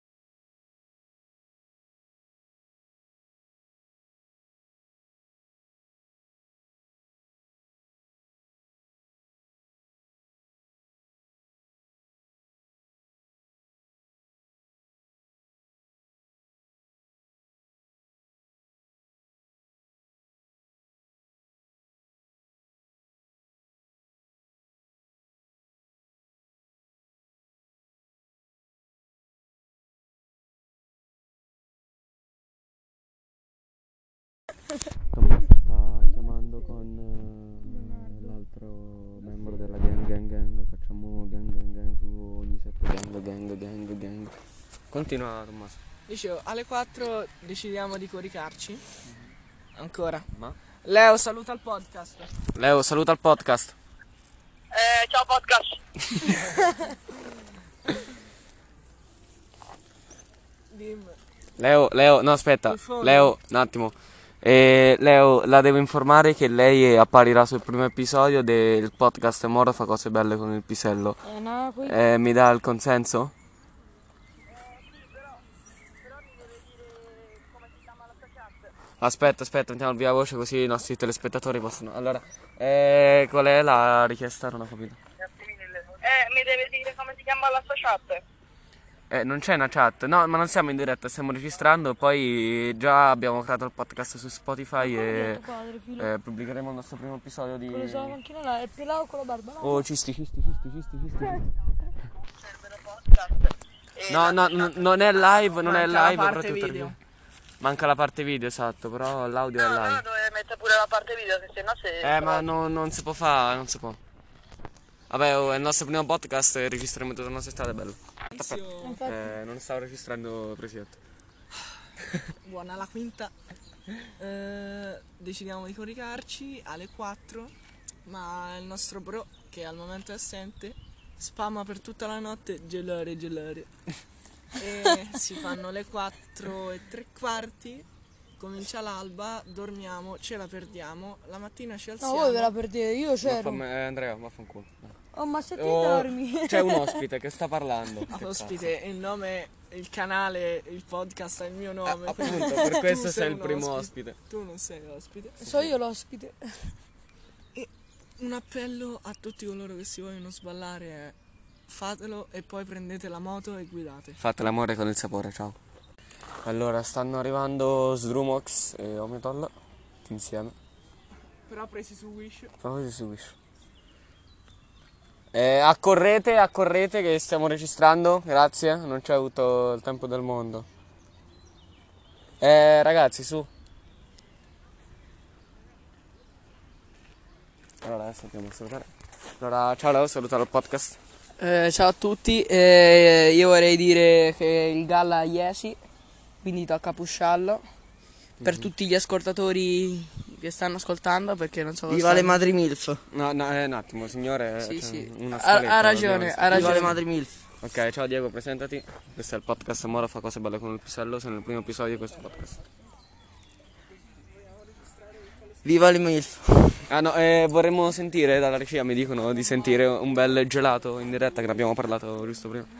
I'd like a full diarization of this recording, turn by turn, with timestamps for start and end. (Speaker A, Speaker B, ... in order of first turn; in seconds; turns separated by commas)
Speaker A: 35.1-44.4, Speaker B: 37.6-38.3, Speaker A: 44.9-45.8, Speaker C: 46.1-48.8, Speaker C: 49.7-50.2, Speaker C: 50.8-52.3, Speaker A: 52.5-53.7, Speaker D: 54.7-55.8, Speaker C: 60.7-61.2, Speaker A: 61.6-71.2, Speaker C: 62.6-63.4, Speaker B: 71.2-72.0, Speaker A: 71.8-73.3, Speaker D: 75.0-75.3, Speaker D: 76.1-78.7, Speaker A: 79.0-85.0, Speaker D: 85.2-88.2, Speaker A: 89.1-98.2, Speaker B: 94.8-96.1, Speaker B: 97.7-99.8, Speaker A: 99.6-101.5, Speaker D: 102.4-105.2, Speaker A: 104.1-106.9, Speaker C: 105.6-106.9, Speaker A: 107.6-110.0, Speaker D: 109.5-112.4, Speaker A: 112.0-114.0, Speaker A: 115.1-121.0, Speaker C: 118.3-119.1, Speaker B: 118.8-119.3, Speaker C: 122.4-123.3, Speaker C: 124.2-127.5, Speaker C: 128.0-133.7, Speaker C: 134.5-137.8, Speaker C: 138.4-142.5, Speaker B: 142.0-143.6, Speaker A: 143.2-144.9, Speaker B: 145.1-147.1, Speaker A: 145.5-148.6, Speaker C: 148.1-155.5, Speaker A: 151.8-154.2, Speaker B: 152.3-152.7, Speaker B: 155.4-156.8, Speaker A: 155.4-155.7, Speaker C: 157.5-161.1, Speaker C: 161.7-164.2, Speaker A: 164.2-165.6, Speaker A: 166.4-169.5, Speaker A: 170.0-170.5, Speaker C: 171.5-172.5, Speaker A: 172.6-173.3, Speaker A: 175.3-180.7, Speaker A: 182.4-183.5, Speaker A: 187.8-191.0, Speaker E: 191.4-195.8, Speaker E: 196.4-197.7, Speaker E: 198.4-202.4, Speaker A: 198.4-198.7, Speaker F: 201.9-203.0, Speaker A: 203.1-207.0, Speaker E: 204.6-206.8, Speaker F: 206.5-207.3, Speaker A: 207.6-212.6, Speaker F: 215.6-216.8, Speaker A: 216.8-222.7